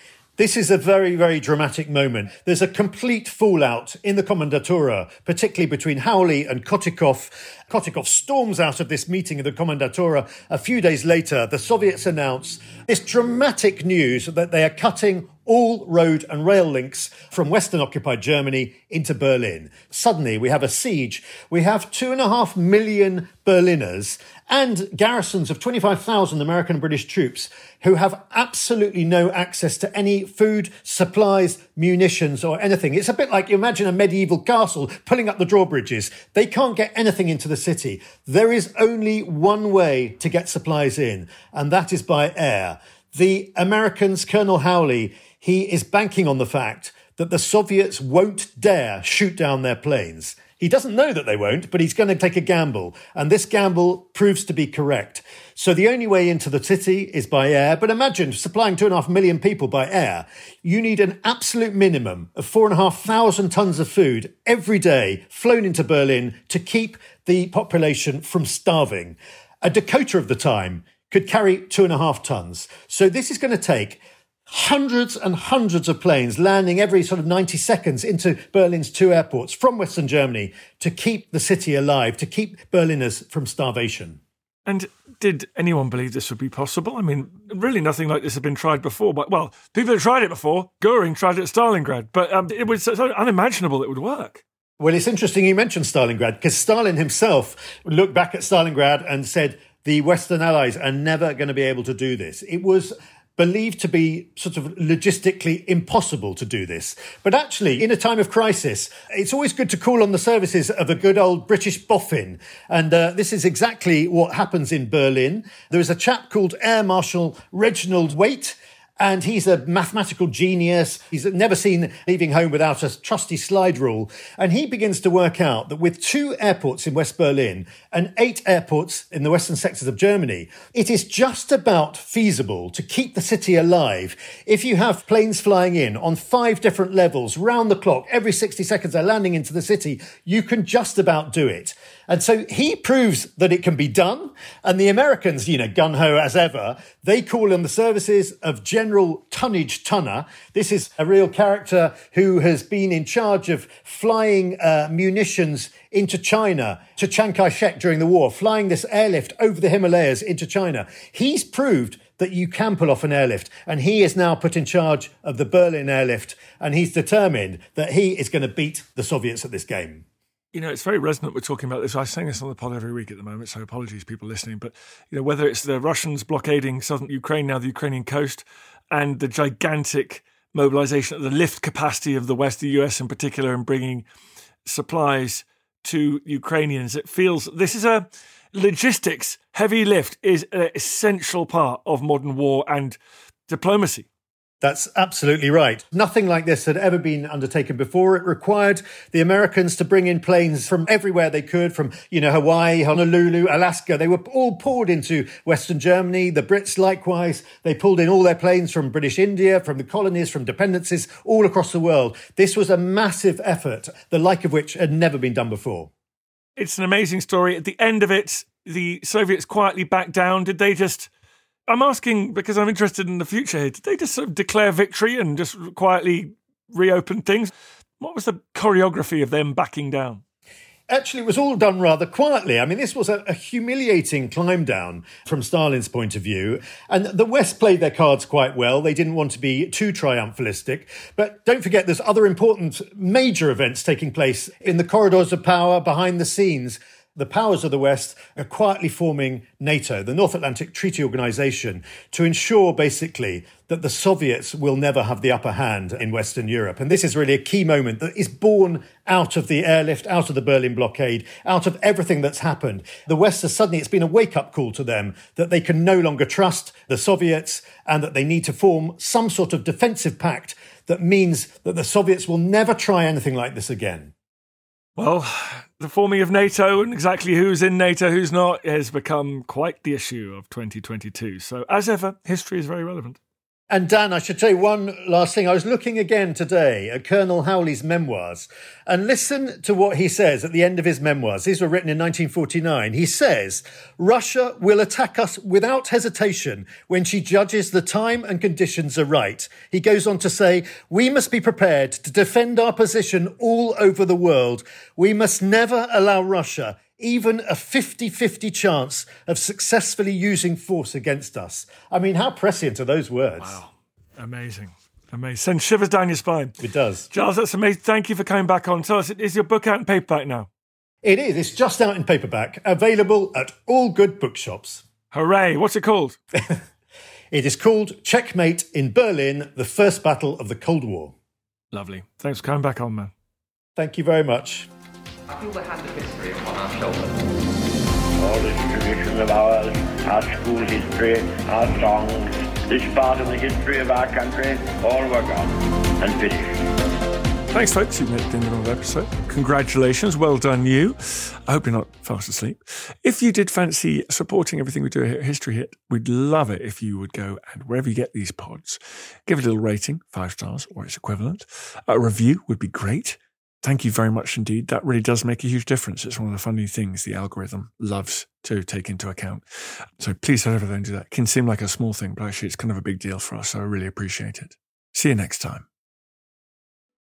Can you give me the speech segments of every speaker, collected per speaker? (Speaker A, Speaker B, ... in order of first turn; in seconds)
Speaker A: 0.4-84.2, 94.8-170.1, 194.6-215.9, 230.9-274.1, 283.7-313.6, 316.6-317.1, 321.0-324.8, 327.3-331.1, 333.8-334.7
Speaker B: 84.7-94.4, 170.5-184.0, 184.7-193.0, 193.5-194.1, 216.6-221.1, 221.7-230.2, 275.0-283.2, 313.4-316.5, 317.1-320.5, 325.1-326.2, 331.7-333.1, 347.5-369.4, 370.0-375.6
Speaker C: 335.3-337.2
Speaker D: 338.1-346.6